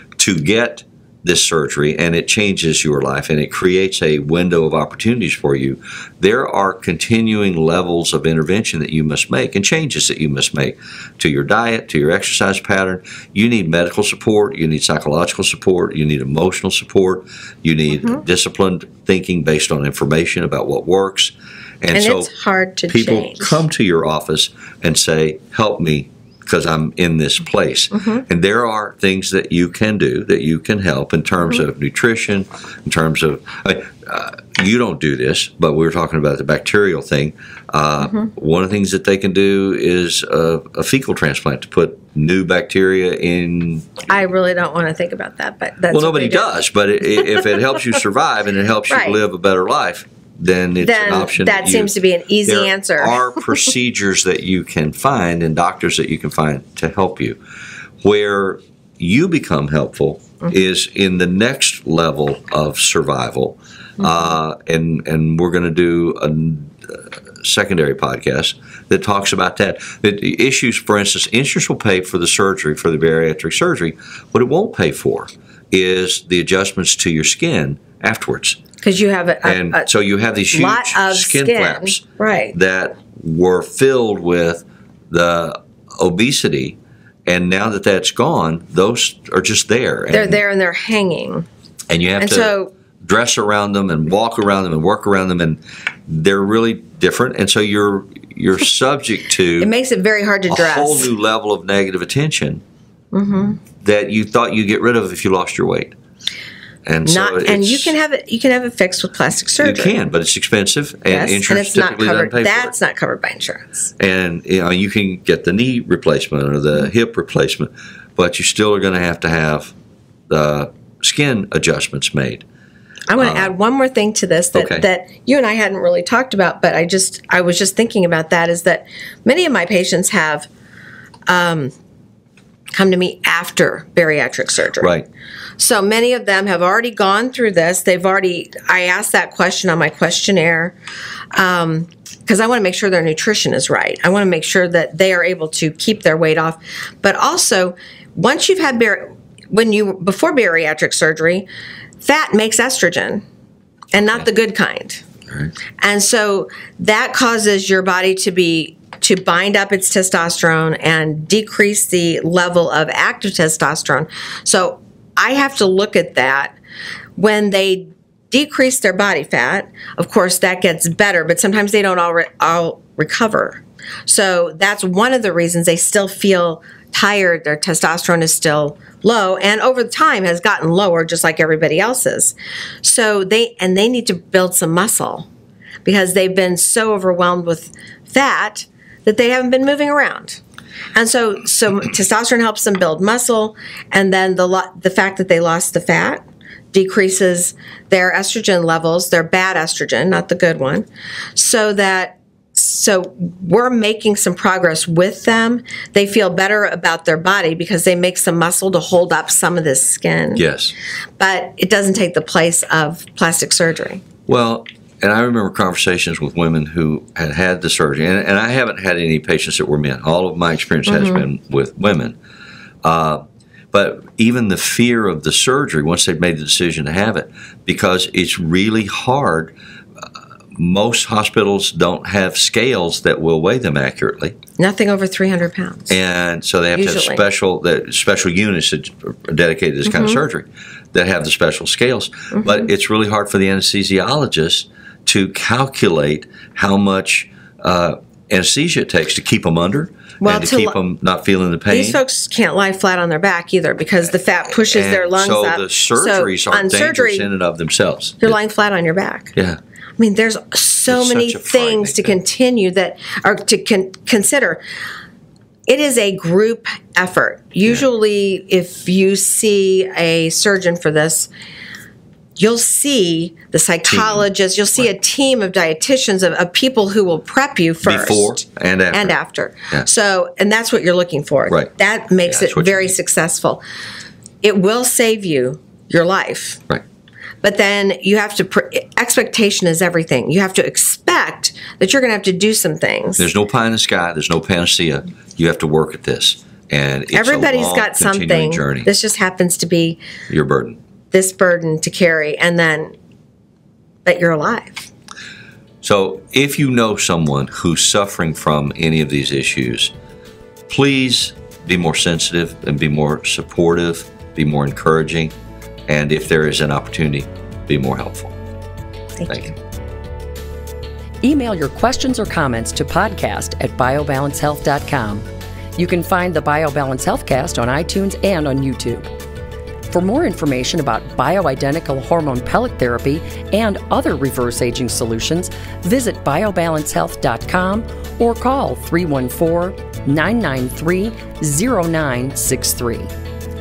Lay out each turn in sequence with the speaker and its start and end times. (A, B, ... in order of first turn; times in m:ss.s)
0:00.2-0:22.3 A
0:21.9-0:23.6 B
0:22.9-0:44.1 A
0:28.0-0:28.2 B
0:44.1-0:46.6 B
0:45.9-0:57.4 A
0:48.9-0:49.2 B
0:50.8-0:53.4 B
0:58.0-1:18.6 A
1:18.8-1:19.9 B
1:19.4-1:30.4 A
1:20.5-1:22.6 B
1:30.1-1:31.5 B
1:31.9-1:39.7 A
1:32.2-1:32.7 B
1:39.6-1:41.1 B
1:40.5-1:42.6 A
1:43.1-1:43.6 B
1:43.8-1:46.0 A
1:46.9-1:47.9 A
1:47.0-1:50.0 B
1:49.6-1:52.7 A
1:51.1-1:53.9 B
1:54.0-1:59.7 A
2:00.3-2:02.4 A
2:03.1-2:10.5 B
2:03.2-2:03.5 A
2:04.6-2:04.8 A
2:11.3-2:11.7 B
2:12.8-2:15.0 B
2:14.8-2:15.1 A
2:15.6-2:20.8 B
2:21.3-2:31.5 B
2:32.0-2:33.2 B
2:33.9-2:35.0 B
2:35.8-2:46.6 B
2:47.2-3:05.3 B
3:05.8-3:10.4 B
3:11.0-3:30.4 B
3:30.4-3:30.7 A
3:31.2-3:34.0 B
3:34.3-3:42.2 A
3:40.9-3:41.2 B
3:42.8-3:54.4 A
3:54.6-3:56.0 B
3:55.9-4:12.0 A
3:56.8-3:57.2 B
3:59.9-4:00.2 B
4:10.2-4:10.8 B
4:11.7-4:17.3 B
4:14.7-4:18.4 A
4:18.2-4:19.3 B
4:20.0-4:24.6 B
4:20.9-4:22.2 A
4:25.7-4:31.3 B
4:32.4-4:43.6 B
4:33.9-4:34.2 A
4:37.8-4:39.2 A
4:42.2-4:42.9 A
4:44.4-4:46.6 B
4:47.4-4:53.3 B
4:53.2-4:58.9 A
4:57.1-5:00.0 B
5:00.3-5:00.8 A
5:01.1-5:03.0 B
5:04.0-5:04.9 B
5:05.8-5:09.9 A
5:10.7-5:15.3 A
5:15.9-5:18.3 A
5:19.2-5:19.5 B
5:19.3-5:19.5 A
5:21.2-5:29.1 C
5:29.9-5:43.1 C